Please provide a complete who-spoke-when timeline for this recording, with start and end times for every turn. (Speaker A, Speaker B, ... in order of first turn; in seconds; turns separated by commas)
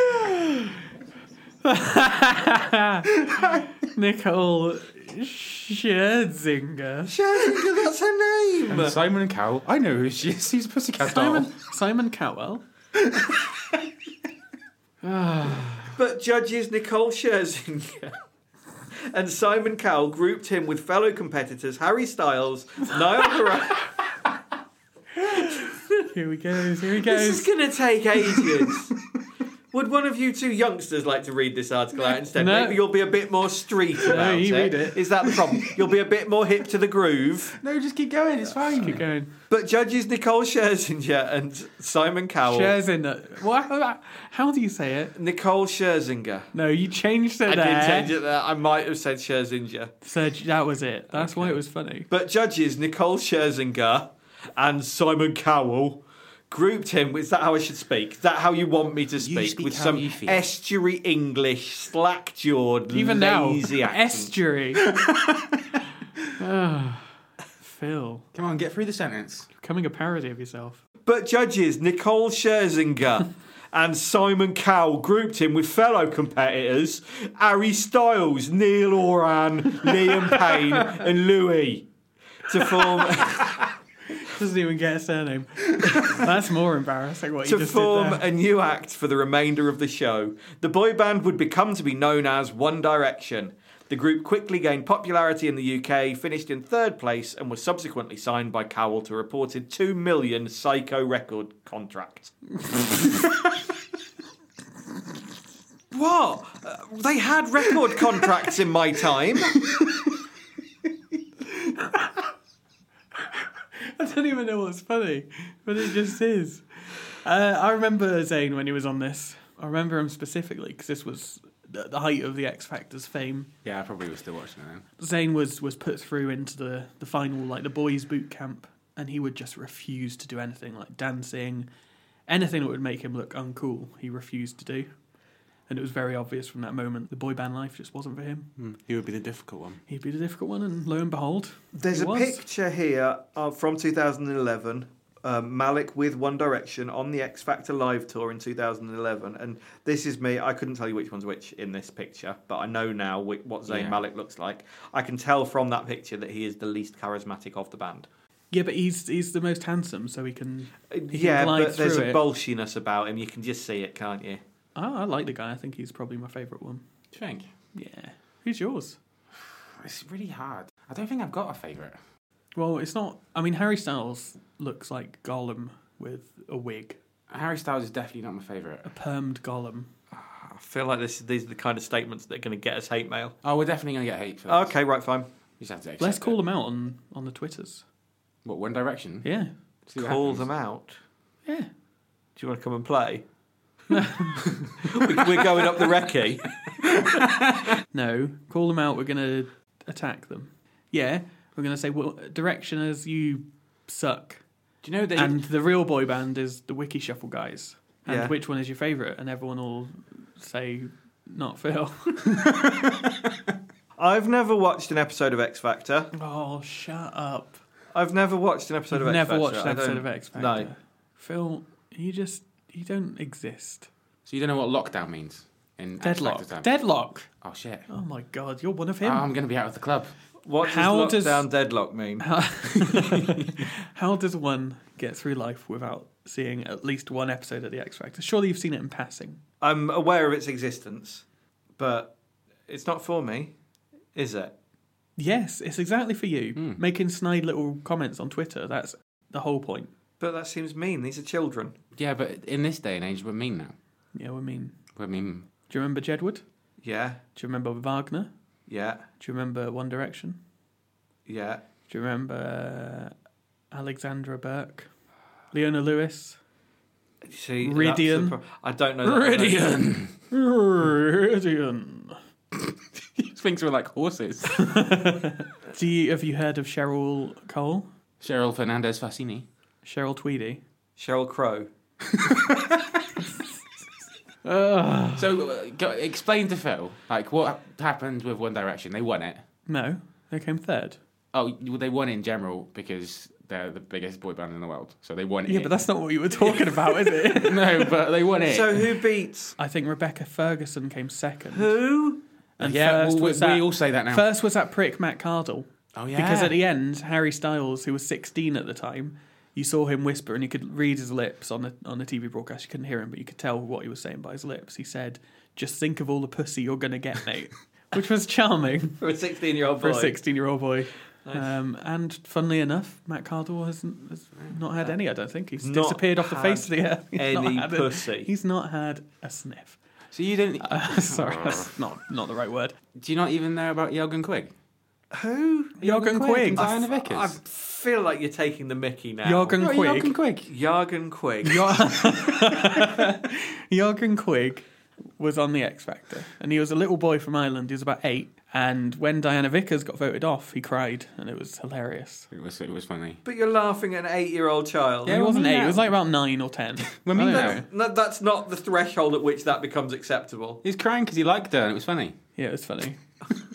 Speaker A: 1.6-7.1, Speaker B: 3.4-3.6, Speaker C: 7.1-9.0, Speaker B: 8.7-11.5, Speaker A: 11.0-12.6, Speaker B: 13.1-13.4, Speaker A: 15.1-15.6, Speaker C: 15.9-18.2, Speaker C: 19.1-23.9, Speaker A: 25.3-27.5, Speaker C: 27.0-28.9, Speaker C: 29.7-37.6, Speaker A: 32.4-32.8, Speaker A: 34.1-35.0, Speaker B: 37.6-39.1, Speaker A: 38.8-39.3, Speaker C: 39.5-42.8, Speaker A: 42.4-45.1, Speaker C: 45.2-46.5, Speaker A: 46.5-48.1, Speaker C: 47.5-49.9, Speaker A: 50.0-52.1, Speaker C: 51.1-64.3, Speaker B: 59.2-60.5, Speaker A: 62.9-64.8, Speaker B: 64.8-65.8, Speaker A: 66.4-67.1, Speaker A: 67.6-68.3, Speaker B: 68.3-69.5, Speaker A: 69.6-70.8, Speaker C: 71.0-81.9, Speaker C: 82.5-83.7, Speaker A: 84.2-88.2, Speaker C: 87.5-102.3, Speaker C: 105.9-109.6, Speaker A: 111.6-112.0, Speaker A: 113.8-116.6, Speaker A: 117.2-123.5, Speaker B: 123.6-124.8, Speaker A: 125.0-131.7, Speaker A: 132.3-134.9, Speaker A: 135.7-138.5, Speaker B: 138.6-139.8, Speaker A: 139.9-142.4, Speaker C: 141.7-158.1, Speaker B: 153.7-154.0, Speaker A: 158.5-162.2, Speaker C: 160.9-164.4, Speaker A: 164.8-166.8, Speaker B: 167.1-167.5, Speaker A: 167.7-169.0, Speaker B: 169.4-172.0, Speaker A: 172.6-177.0, Speaker B: 177.3-178.9, Speaker A: 178.8-179.9, Speaker C: 180.2-183.4, Speaker B: 183.4-184.8, Speaker C: 184.5-185.3, Speaker B: 185.6-186.4, Speaker A: 186.0-187.8, Speaker B: 188.4-189.3, Speaker A: 189.2-189.5, Speaker B: 189.9-190.5, Speaker C: 190.0-191.0, Speaker C: 192.4-193.2, Speaker A: 193.9-194.4, Speaker C: 194.8-196.5, Speaker A: 197.9-204.4, Speaker B: 204.8-205.4, Speaker A: 205.1-212.4, Speaker C: 208.1-208.3, Speaker C: 214.0-216.1, Speaker A: 216.1-217.6, Speaker C: 217.9-220.7, Speaker A: 218.9-223.9, Speaker B: 224.3-227.9, Speaker A: 226.0-227.3, Speaker A: 227.9-229.2, Speaker B: 229.0-230.2, Speaker C: 230.4-232.4, Speaker A: 230.6-231.5, Speaker A: 232.2-239.4, Speaker C: 239.6-241.2, Speaker C: 241.8-242.1, Speaker C: 242.7-243.5, Speaker C: 244.2-244.5, Speaker A: 245.2-249.9, Speaker B: 246.6-246.8, Speaker C: 250.2-251.8, Speaker B: 252.0-253.7, Speaker A: 254.2-254.8, Speaker B: 255.0-255.5, Speaker A: 255.7-256.4, Speaker C: 256.8-257.2, Speaker A: 257.4-258.3, Speaker C: 258.7-259.0, Speaker A: 259.2-260.4, Speaker C: 261.3-261.6, Speaker A: 261.9-263.1, Speaker A: 263.7-264.9, Speaker A: 265.5-266.4, Speaker C: 267.2-269.7, Speaker A: 267.6-268.4, Speaker B: 269.2-270.1, Speaker A: 270.3-272.2, Speaker B: 273.2-274.8, Speaker A: 274.6-277.9, Speaker B: 278.2-279.4, Speaker A: 279.8-280.6, Speaker C: 281.0-281.7, Speaker A: 284.4-285.2, Speaker B: 285.2-289.4, Speaker A: 289.7-291.0, Speaker B: 291.3-295.8, Speaker A: 295.5-297.9, Speaker B: 296.4-299.0, Speaker C: 298.4-299.6, Speaker A: 299.6-301.8, Speaker C: 301.5-302.2, Speaker A: 302.6-319.0, Speaker B: 302.6-304.3, Speaker B: 305.9-306.6, Speaker C: 319.0-320.2, Speaker A: 319.8-329.8, Speaker C: 325.6-328.3, Speaker B: 330.1-331.7, Speaker A: 330.6-332.8, Speaker B: 333.0-334.5, Speaker C: 335.1-335.8, Speaker A: 335.8-336.7, Speaker B: 335.8-337.4, Speaker C: 336.6-339.6, Speaker A: 339.2-340.1, Speaker B: 339.6-340.5, Speaker C: 340.5-341.9, Speaker A: 341.4-344.6, Speaker A: 345.2-352.3, Speaker B: 352.3-353.2, Speaker C: 353.2-355.1, Speaker B: 355.1-355.9, Speaker A: 355.1-357.7, Speaker B: 357.0-357.6, Speaker C: 357.3-360.6, Speaker B: 360.6-362.2, Speaker A: 362.4-363.0